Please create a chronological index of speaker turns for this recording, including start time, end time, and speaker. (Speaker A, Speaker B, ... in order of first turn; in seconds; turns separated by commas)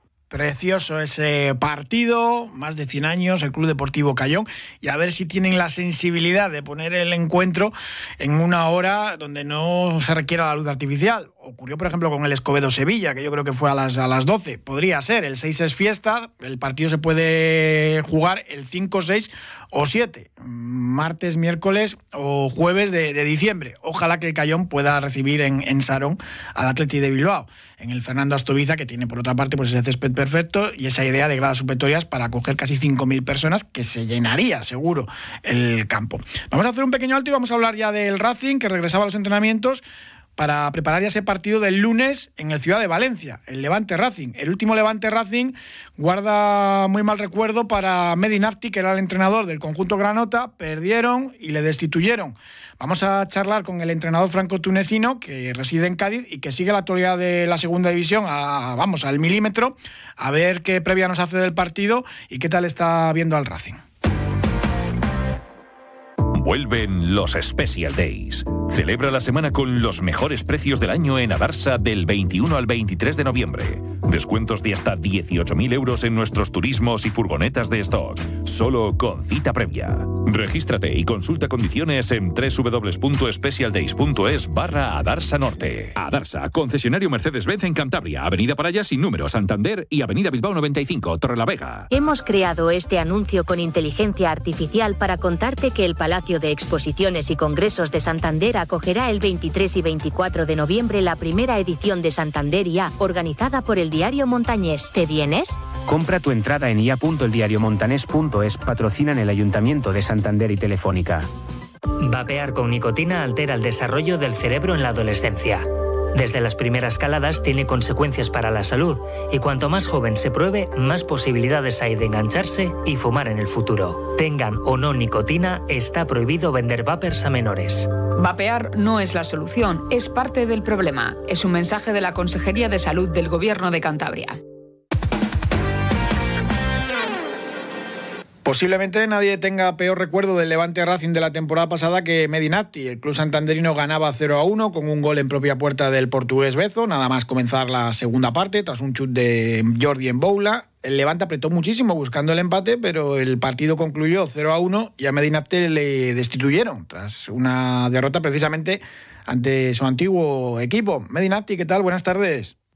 Speaker A: 0.3-39.8, Speaker A: 40.4-63.8, Speaker B: 66.3-91.9, Speaker C: 91.9-105.6, Speaker D: 105.8-111.3, Speaker E: 112.0-127.9, Speaker F: 128.2-134.4, Speaker A: 138.4-162.5